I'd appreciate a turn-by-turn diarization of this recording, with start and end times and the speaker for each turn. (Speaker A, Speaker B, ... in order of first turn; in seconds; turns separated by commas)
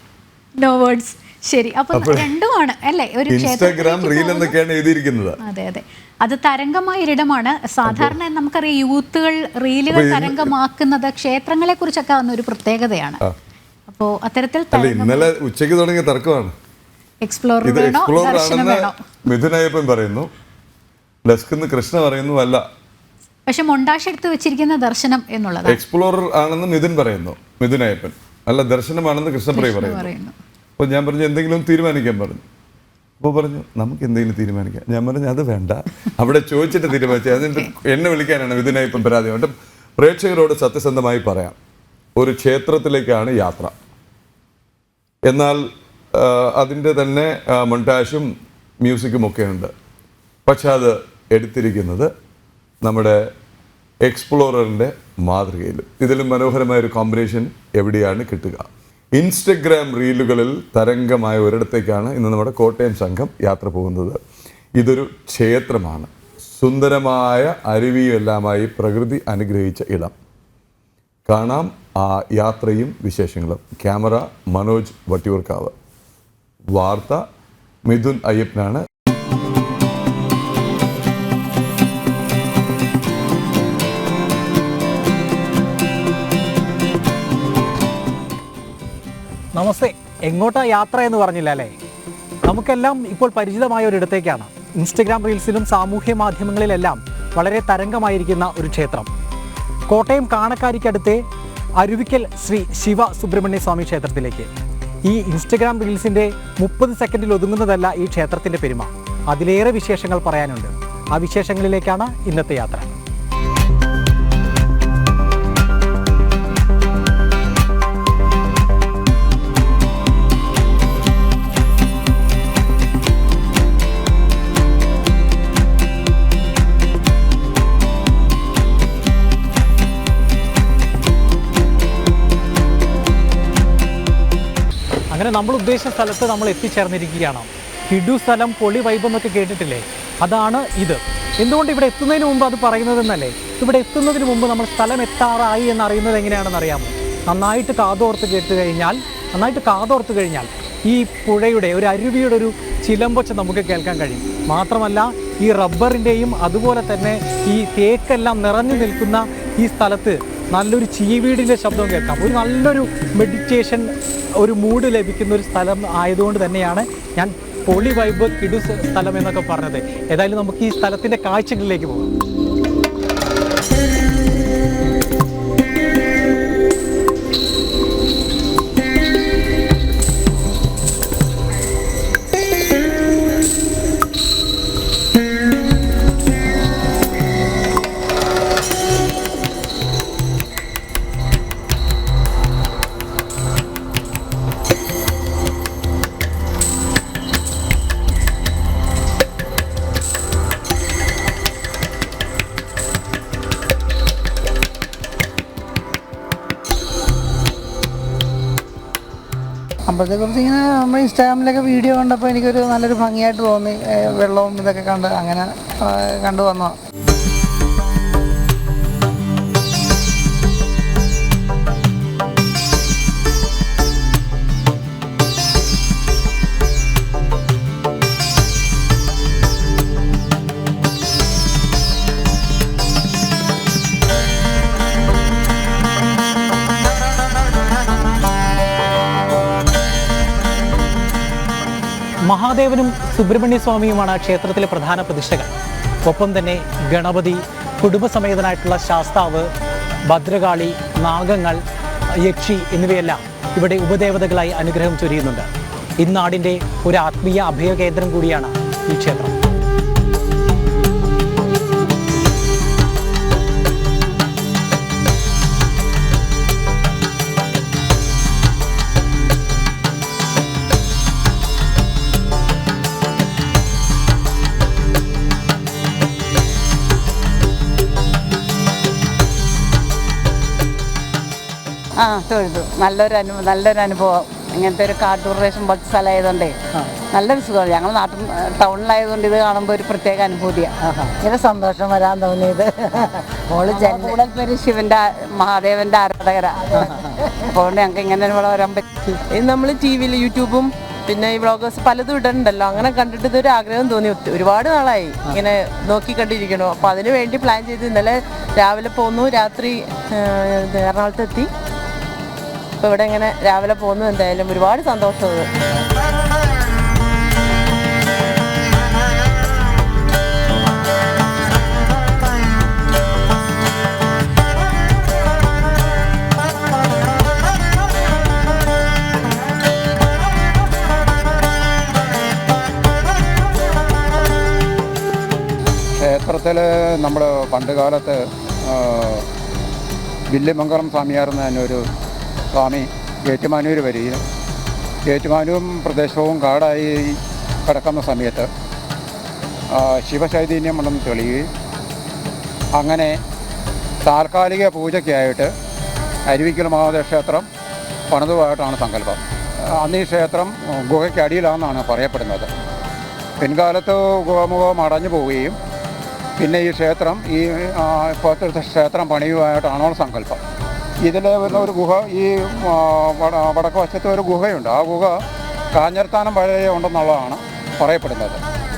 Speaker A: 0.6-4.5, Speaker B: 1.9-2.3, Speaker B: 3.3-5.4, Speaker A: 5.4-13.2, Speaker B: 7.8-8.2, Speaker B: 9.9-10.5, Speaker A: 13.9-15.3, Speaker B: 14.7-16.5, Speaker A: 17.2-19.0, Speaker B: 17.6-20.3, Speaker B: 21.2-22.6, Speaker A: 23.4-25.8, Speaker B: 25.7-30.1, Speaker A: 29.5-30.3, Speaker B: 30.8-32.4, Speaker B: 33.2-41.5, Speaker B: 42.2-43.7, Speaker B: 45.2-48.3, Speaker B: 48.8-49.7, Speaker B: 50.5-52.1, Speaker B: 52.8-53.3, Speaker B: 54.0-64.2, Speaker B: 64.8-70.1, Speaker B: 71.3-75.7, Speaker B: 76.7-77.2, Speaker B: 77.9-78.8, Speaker C: 89.5-91.7, Speaker C: 92.4-99.1, Speaker C: 99.9-101.2, Speaker C: 101.8-104.5, Speaker C: 105.0-113.0, Speaker C: 135.1-172.1, Speaker D: 209.9-216.7, Speaker C: 242.3-245.5, Speaker C: 246.1-249.5, Speaker C: 250.1-251.6, Speaker C: 252.2-255.5, Speaker C: 256.0-259.3, Speaker E: 282.0-298.8, Speaker F: 299.3-311.5, Speaker F: 312.8-315.5, Speaker G: 336.0-339.2, Speaker G: 340.3-341.8, Speaker G: 342.5-344.2, Speaker G: 345.1-348.5, Speaker G: 349.8-351.4, Speaker G: 352.8-353.1, Speaker G: 354.1-355.5, Speaker G: 356.3-357.4, Speaker G: 358.1-359.2, Speaker G: 359.8-362.5, Speaker G: 363.4-365.6, Speaker G: 366.4-370.4, Speaker G: 371.1-375.1, Speaker G: 375.8-378.4